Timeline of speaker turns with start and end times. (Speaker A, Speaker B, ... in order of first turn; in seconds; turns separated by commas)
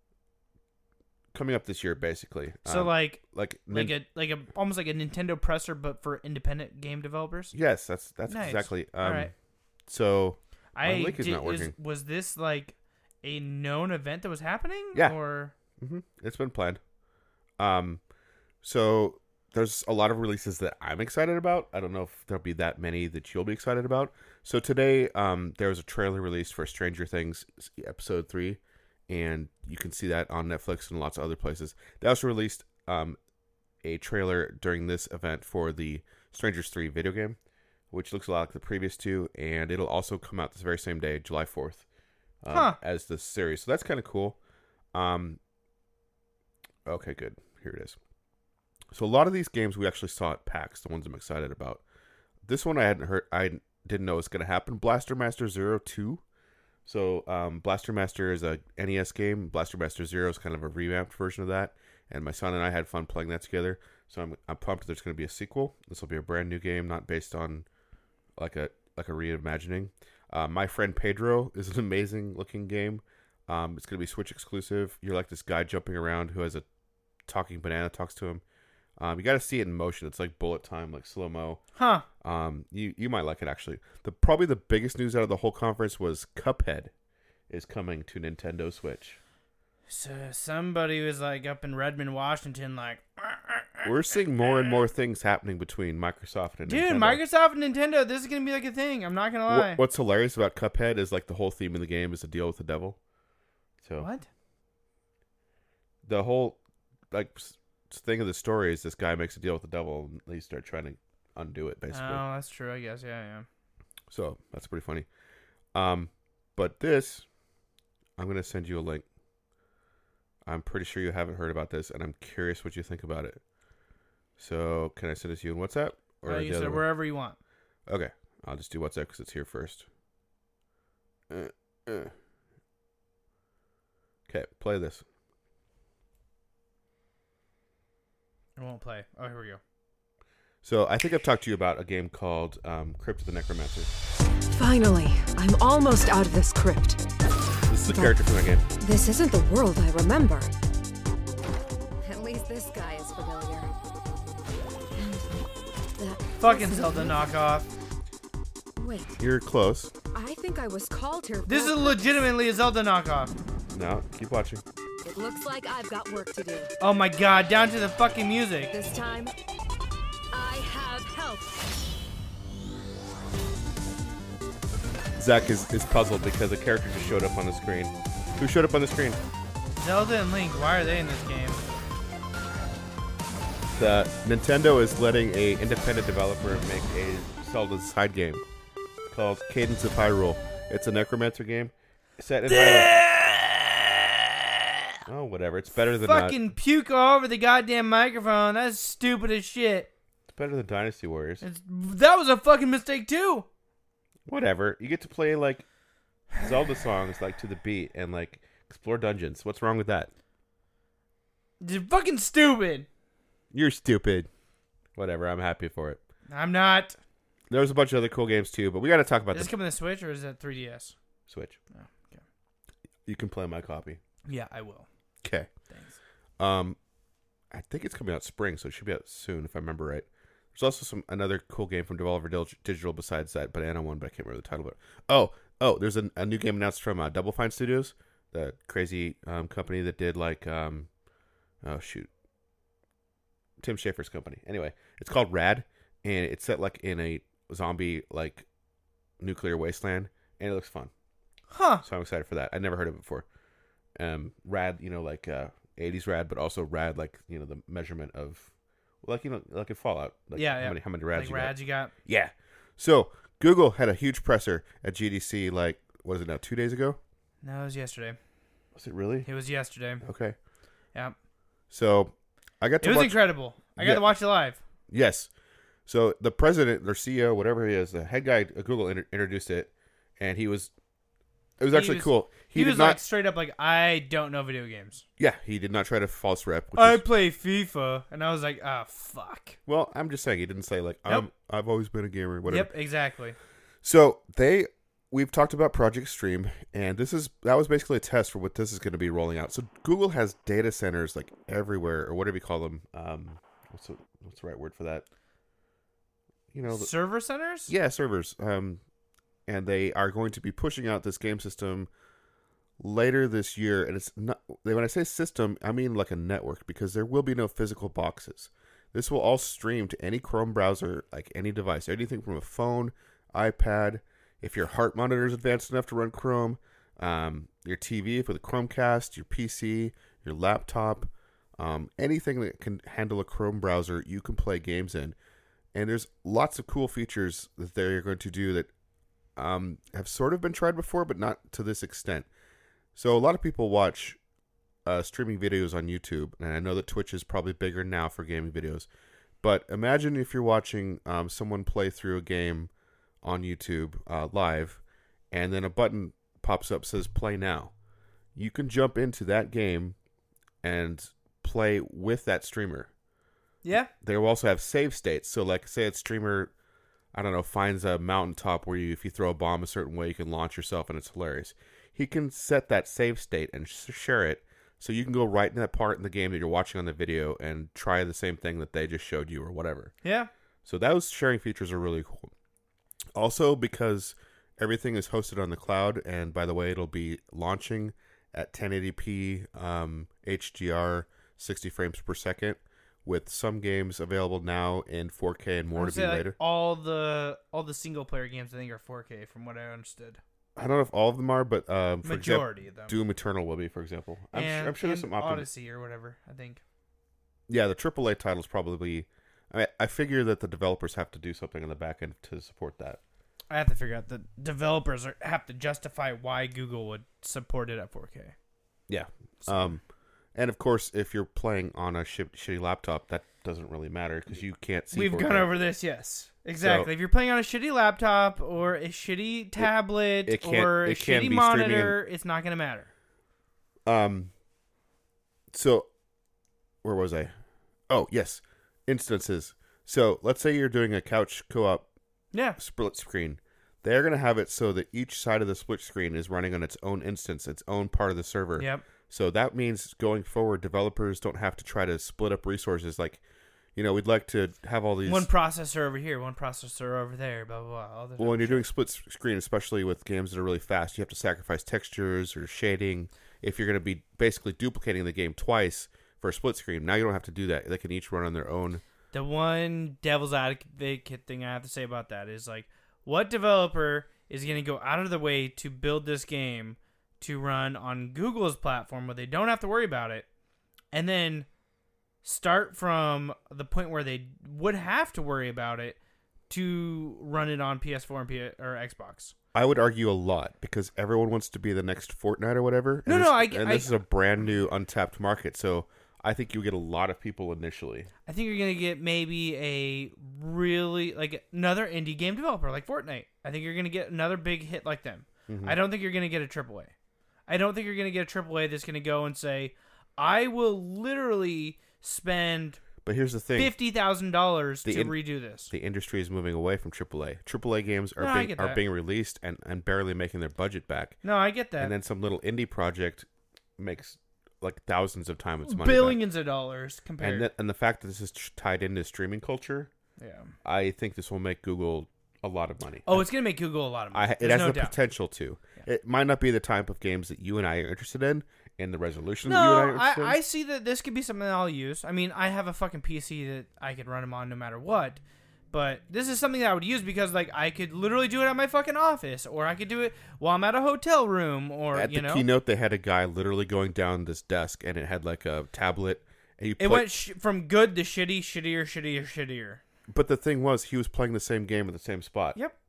Speaker A: 1.3-4.0, Speaker B: 2.7-7.5, Speaker A: 7.5-9.3, Speaker B: 8.3-9.3, Speaker A: 9.9-11.7, Speaker B: 10.8-15.5, Speaker A: 15.8-16.8, Speaker A: 17.6-18.0, Speaker A: 18.6-33.2, Speaker A: 33.8-37.4, Speaker A: 37.9-41.9, Speaker A: 42.4-44.4, Speaker B: 42.5-42.8, Speaker A: 44.9-45.4, Speaker A: 46.9-48.0, Speaker A: 48.9-51.8, Speaker A: 52.5-56.2, Speaker A: 56.9-67.7, Speaker A: 68.4-76.7, Speaker A: 77.3-78.4, Speaker A: 79.0-81.6, Speaker B: 81.8-82.1, Speaker A: 82.2-86.9, Speaker A: 87.5-89.2, Speaker B: 89.9-94.8, Speaker A: 93.8-97.2, Speaker B: 96.7-99.8, Speaker A: 99.5-103.0, Speaker A: 103.8-104.1, Speaker B: 104.0-104.3, Speaker A: 106.0-106.6, Speaker A: 107.1-112.2, Speaker B: 111.9-113.5, Speaker A: 114.1-115.1, Speaker A: 115.7-117.2, Speaker A: 118.2-119.0, Speaker A: 120.5-123.4, Speaker A: 124.4-126.9, Speaker B: 126.2-127.4, Speaker A: 127.9-129.9, Speaker A: 131.3-132.1, Speaker A: 134.3-135.0, Speaker B: 138.6-139.6, Speaker A: 140.6-143.9, Speaker C: 144.5-147.0, Speaker A: 147.7-148.6, Speaker C: 147.9-148.2, Speaker C: 148.8-150.5, Speaker C: 152.0-153.7, Speaker C: 155.0-155.4, Speaker C: 156.0-157.4, Speaker B: 156.4-157.7, Speaker C: 158.8-159.2, Speaker A: 159.2-159.9, Speaker C: 160.1-162.3, Speaker B: 161.5-163.3, Speaker A: 163.7-164.6, Speaker C: 165.1-166.7, Speaker B: 166.8-168.7, Speaker C: 168.7-169.3, Speaker C: 170.3-171.5, Speaker A: 175.2-179.2, Speaker B: 179.8-181.6, Speaker A: 183.8-188.4, Speaker A: 189.1-193.0, Speaker B: 192.5-194.2, Speaker A: 195.1-196.4, Speaker B: 196.0-199.9, Speaker A: 200.3-201.4, Speaker B: 201.4-203.5, Speaker A: 204.3-205.7, Speaker A: 206.4-210.1, Speaker B: 211.6-212.9, Speaker A: 213.5-214.3, Speaker A: 214.9-216.0, Speaker B: 216.3-217.0, Speaker A: 217.5-219.5, Speaker B: 219.3-220.9, Speaker A: 221.3-221.6, Speaker B: 221.7-222.2, Speaker A: 223.1-224.0, Speaker B: 224.3-224.9, Speaker A: 225.2-225.5, Speaker B: 225.7-226.0, Speaker A: 226.4-226.8, Speaker A: 227.5-240.9, Speaker A: 241.6-242.1, Speaker A: 243.6-248.5, Speaker A: 249.2-250.9, Speaker B: 251.5-251.8, Speaker A: 251.8-253.3, Speaker A: 254.0-258.5, Speaker A: 259.0-267.0, Speaker B: 260.3-261.9, Speaker B: 267.4-268.2, Speaker A: 268.8-269.3, Speaker B: 269.3-270.0, Speaker A: 270.0-270.4, Speaker A: 271.7-274.1, Speaker B: 272.8-274.6, Speaker A: 274.9-275.3, Speaker A: 275.9-280.7, Speaker A: 281.6-283.0, Speaker B: 281.7-285.0, Speaker A: 285.2-287.0, Speaker B: 286.8-289.6, Speaker A: 289.7-292.7, Speaker B: 292.5-293.4, Speaker A: 293.8-305.1, Speaker A: 306.5-306.9, Speaker B: 306.7-307.7, Speaker A: 307.7-308.8, Speaker A: 309.5-311.9, Speaker A: 312.8-335.2, Speaker A: 335.7-338.7, Speaker A: 339.4-342.3, Speaker A: 342.9-344.2, Speaker A: 344.9-348.9, Speaker A: 349.4-352.7, Speaker A: 353.2-357.7, Speaker A: 358.4-360.0, Speaker A: 360.6-362.9, Speaker B: 363.6-363.9, Speaker A: 363.9-366.5, Speaker A: 367.1-379.9, Speaker B: 380.0-380.3, Speaker A: 380.6-382.3, Speaker A: 383.1-396.4, Speaker B: 395.8-400.2, Speaker A: 400.6-405.5, Speaker B: 402.0-403.0, Speaker B: 404.3-406.6, Speaker A: 407.5-413.0, Speaker B: 413.5-418.4, Speaker A: 418.9-419.8, Speaker B: 419.4-419.8, Speaker A: 420.4-425.5, Speaker B: 424.9-432.9, Speaker A: 426.6-426.9, Speaker A: 430.2-432.0, Speaker A: 433.9-434.3, Speaker A: 435.5-435.9, Speaker A: 436.8-437.3, Speaker A: 437.9-441.9, Speaker B: 442.3-442.6, Speaker A: 442.6-453.2, Speaker B: 448.6-448.8, Speaker A: 453.8-455.3, Speaker B: 455.1-458.7, Speaker A: 458.2-468.8, Speaker B: 469.1-480.3, Speaker B: 480.9-481.5, Speaker B: 482.2-486.0, Speaker B: 486.5-489.3, Speaker A: 489.5-498.1, Speaker B: 493.1-494.0, Speaker B: 498.3-506.9, Speaker A: 505.5-505.8, Speaker B: 507.5-512.8, Speaker A: 513.0-513.8, Speaker B: 513.6-515.7, Speaker A: 514.9-521.2, Speaker B: 518.2-518.8, Speaker B: 521.2-521.9, Speaker A: 521.8-523.3, Speaker A: 523.8-526.2, Speaker B: 525.7-527.5, Speaker A: 527.2-529.9, Speaker B: 530.2-530.5, Speaker A: 530.6-533.3, Speaker B: 533.1-535.0, Speaker A: 534.1-540.4, Speaker B: 539.5-545.2, Speaker B: 545.7-552.5, Speaker A: 551.9-557.1, Speaker B: 556.8-559.8, Speaker A: 560.1-562.6